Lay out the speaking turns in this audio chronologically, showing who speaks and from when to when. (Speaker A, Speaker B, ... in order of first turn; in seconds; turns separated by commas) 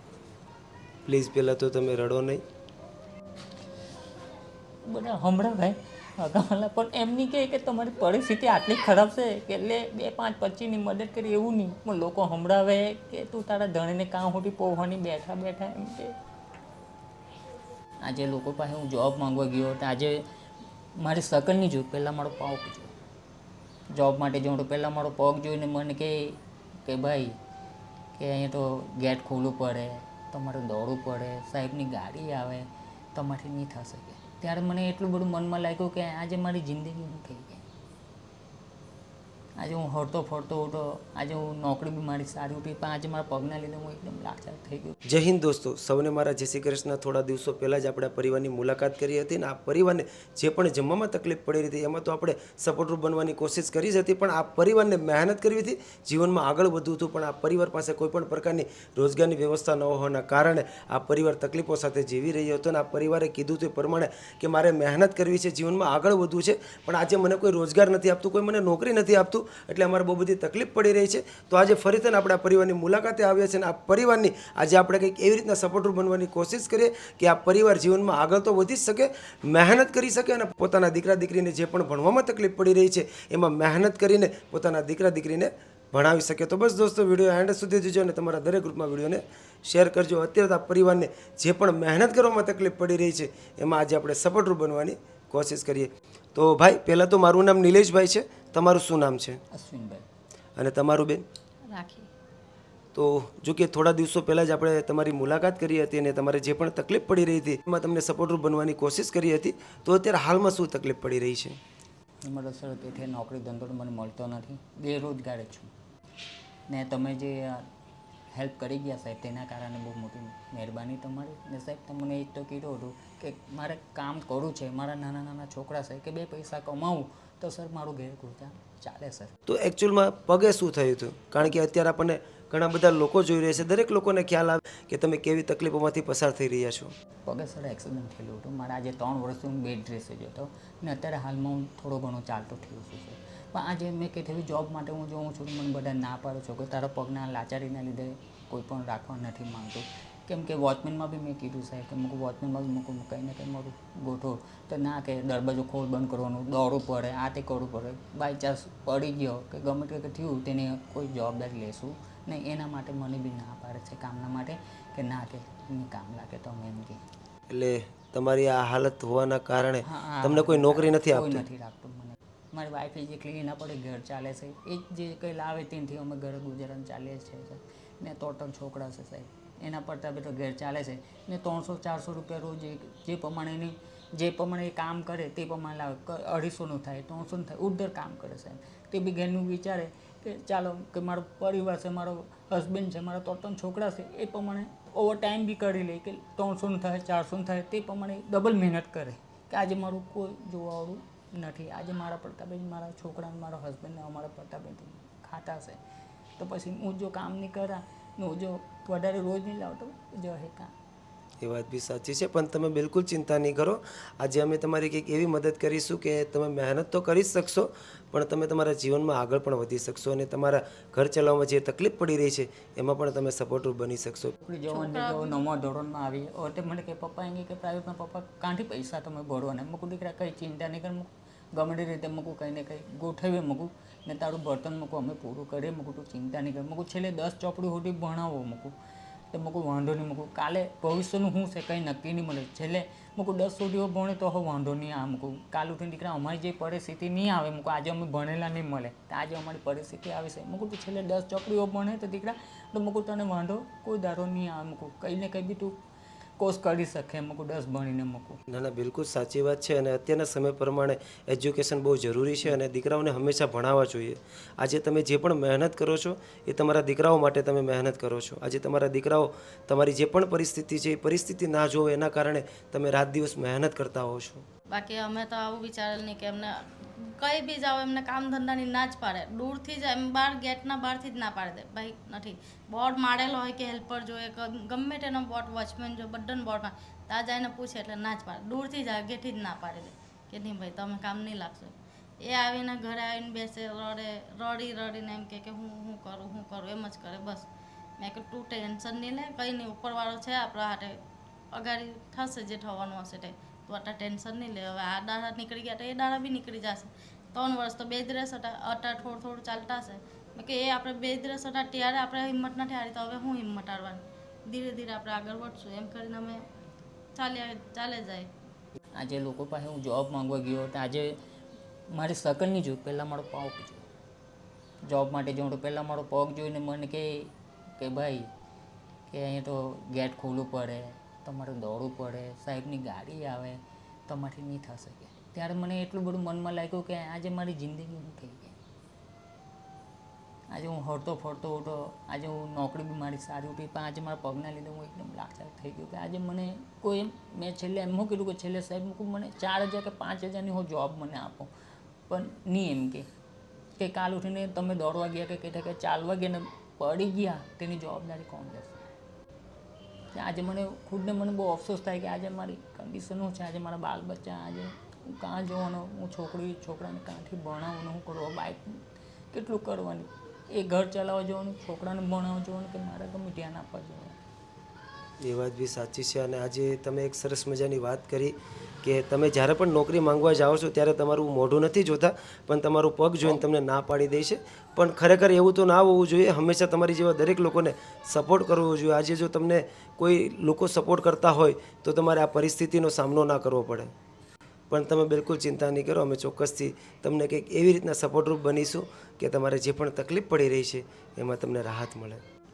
Speaker A: 1.1-2.4, Speaker B: 4.8-16.1, Speaker B: 18.0-20.2, Speaker B: 20.9-22.9, Speaker B: 23.9-27.4, Speaker B: 28.1-37.6, Speaker B: 39.6-44.9, Speaker A: 45.1-99.4, Speaker B: 99.5-100.0, Speaker A: 100.6-101.2, Speaker C: 101.7-102.1, Speaker A: 102.9-111.6, Speaker B: 112.2-115.7, Speaker B: 116.7-117.7, Speaker B: 118.3-129.3, Speaker A: 129.5-136.9, Speaker B: 137.2-167.0, Speaker A: 167.5-171.4, Speaker B: 169.8-205.8, Speaker B: 206.4-210.7, Speaker A: 211.4-224.3, Speaker B: 224.4-238.7, Speaker C: 224.7-225.4, Speaker B: 239.3-255.8, Speaker B: 256.4-258.4, Speaker A: 258.5-274.4, Speaker C: 274.7-297.5, Speaker C: 298.0-301.0, Speaker C: 301.5-316.4, Speaker C: 317.1-318.3, Speaker B: 318.9-321.2, Speaker B: 321.9-323.8, Speaker B: 324.9-328.3, Speaker B: 329.1-338.6, Speaker B: 340.5-351.5, Speaker B: 352.1-353.1, Speaker B: 353.8-358.8, Speaker B: 360.1-374.2, Speaker A: 375.2-393.9, Speaker A: 394.7-402.2